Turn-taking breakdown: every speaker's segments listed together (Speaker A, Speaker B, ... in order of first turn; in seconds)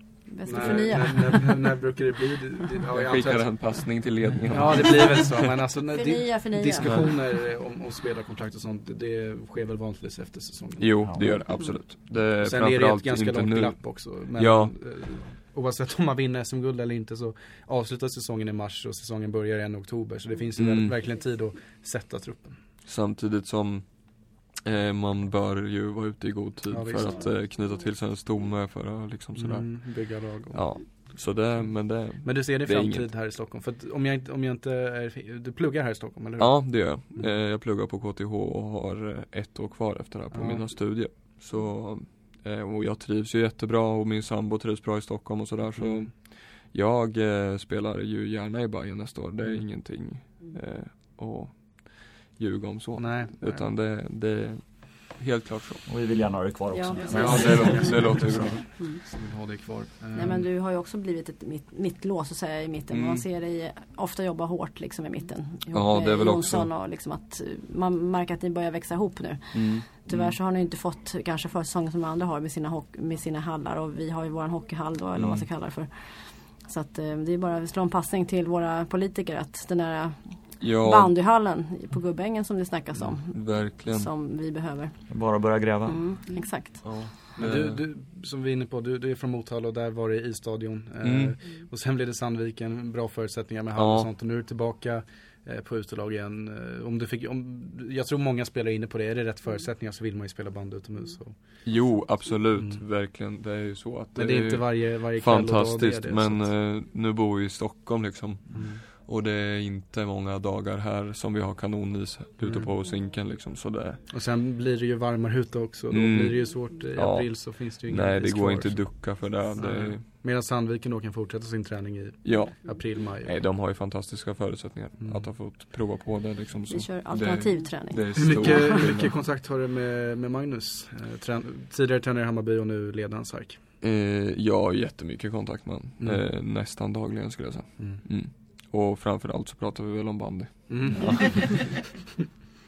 Speaker A: 0.2-1.6, 5.9-7.1, 56.7-58.1, 60.1-85.0, 85.9-86.8, 126.7-128.8
Speaker B: 0.4-3.5, 4.5-10.9, 12.4-22.6, 26.7-27.2, 29.4-30.6, 32.2-36.6, 40.3-40.6, 45.8-46.1, 53.0-53.6, 57.1-60.5, 87.4-101.3, 104.1-106.5, 108.5-108.8, 112.4-112.7, 114.1-123.3, 125.0-125.3, 128.2-133.6, 137.8-138.0, 140.7-141.6
Speaker C: 0.5-0.9, 2.9-5.4, 10.8-14.7, 20.6-20.9, 22.9-33.1, 36.4-55.9, 57.1-58.6, 62.9-63.2, 65.7-66.7, 69.5-70.3, 80.6-81.1, 83.0-84.1, 86.8-87.8, 91.0-91.3, 93.8-94.1, 101.6-114.0, 115.9-120.0, 122.2-129.1, 133.8-141.9
Speaker D: 55.9-58.0, 85.1-86.1